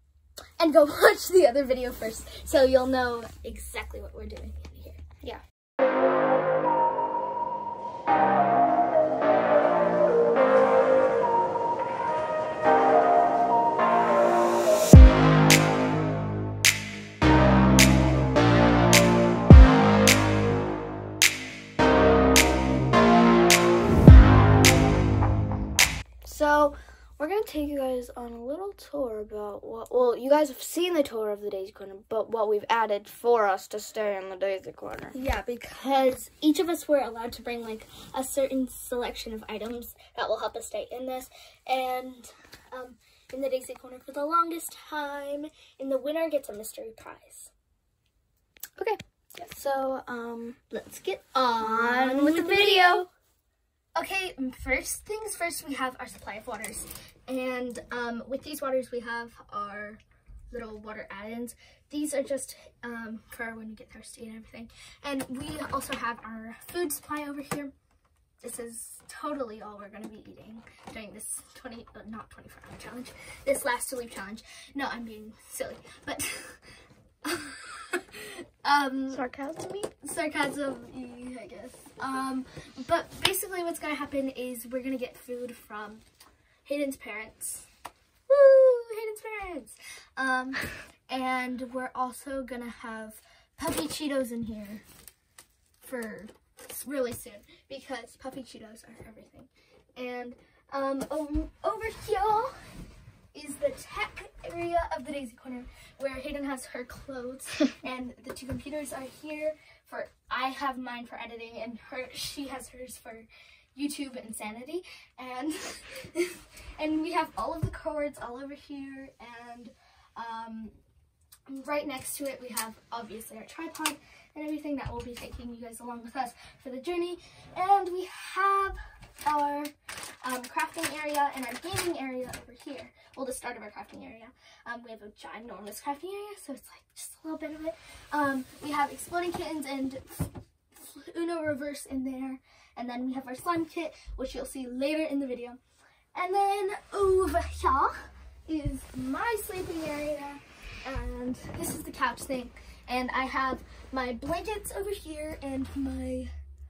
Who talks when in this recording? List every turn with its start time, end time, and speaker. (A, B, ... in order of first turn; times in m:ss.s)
0:00.6-0:05.0 A
0:26.2-0:35.2 B
0:35.1-0:47.5 A
0:48.8-0:50.6 B
0:50.7-0:53.1 A
0:51.6-0:53.1 B
0:53.9-1:07.7 A
1:08.4-1:16.6 A
1:17.2-1:19.2 A
1:19.1-1:19.9 B
1:20.0-1:26.0 A
1:26.6-1:27.7 A
1:28.3-1:34.8 A
1:35.8-1:42.6 A
1:43.3-2:00.8 A
2:01.5-2:25.6 A
2:26.1-2:36.3 A